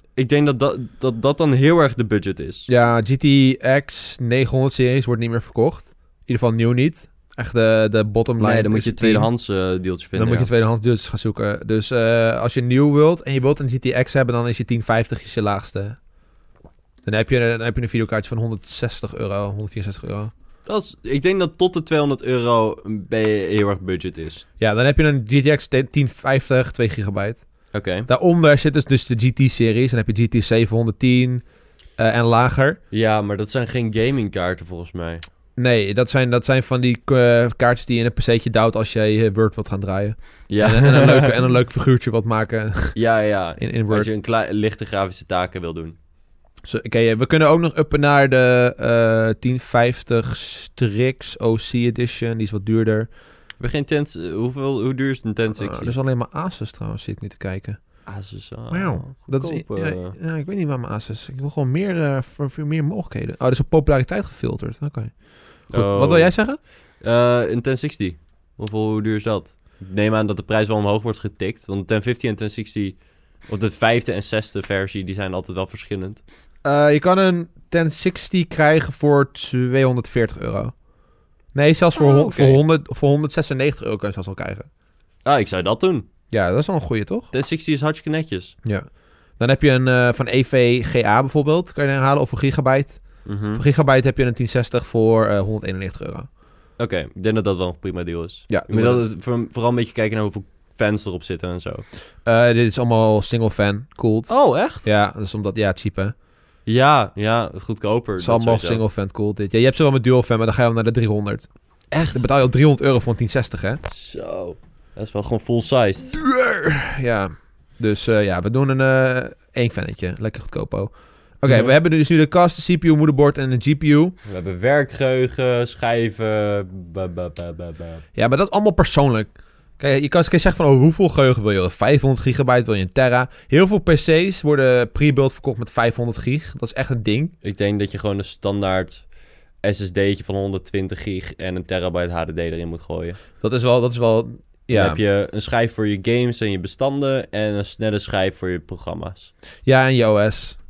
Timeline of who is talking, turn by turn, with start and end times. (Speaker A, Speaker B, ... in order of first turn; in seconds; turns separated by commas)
Speaker A: 0.2-2.7, Speaker B: 2.7-9.3, Speaker A: 8.4-10.5, Speaker B: 10.2-16.0, Speaker B: 17.1-20.3, Speaker A: 20.7-24.4, Speaker B: 24.6-27.4, Speaker A: 27.7-28.1, Speaker B: 28.1-31.4, Speaker B: 32.0-32.8, Speaker A: 32.9-35.2, Speaker B: 35.6-43.0, Speaker A: 40.5-41.4, Speaker A: 43.0-46.0, Speaker B: 43.6-44.1, Speaker B: 46.6-53.1, Speaker A: 53.6-56.0, Speaker B: 55.5-57.8, Speaker A: 58.1-60.1, Speaker B: 58.7-65.1, Speaker B: 65.7-66.6, Speaker A: 65.7-66.3, Speaker A: 67.0-73.0, Speaker A: 73.5-76.2, Speaker B: 76.7-80.7, Speaker B: 81.5-84.7, Speaker A: 82.0-82.6, Speaker A: 85.2-86.1, Speaker B: 86.3-87.3, Speaker A: 87.3-88.5, Speaker B: 89.4-93.0, Speaker A: 93.2-93.6, Speaker B: 93.5-96.3, Speaker A: 96.8-101.8, Speaker B: 98.5-99.0, Speaker B: 102.2-104.3, Speaker A: 104.3-104.9, Speaker B: 104.8-106.2, Speaker A: 106.7-108.8, Speaker B: 108.2-111.5, Speaker A: 111.9-112.2, Speaker B: 112.1-113.8, Speaker A: 113.9-116.2, Speaker B: 116.1-124.2, Speaker A: 121.5-121.7, Speaker A: 124.3-128.0, Speaker B: 128.2-137.3, Speaker A: 137.4-139.0, Speaker A: 139.6-143.2, Speaker B: 143.4-145.0, Speaker A: 144.7-149.3, Speaker B: 149.7-150.6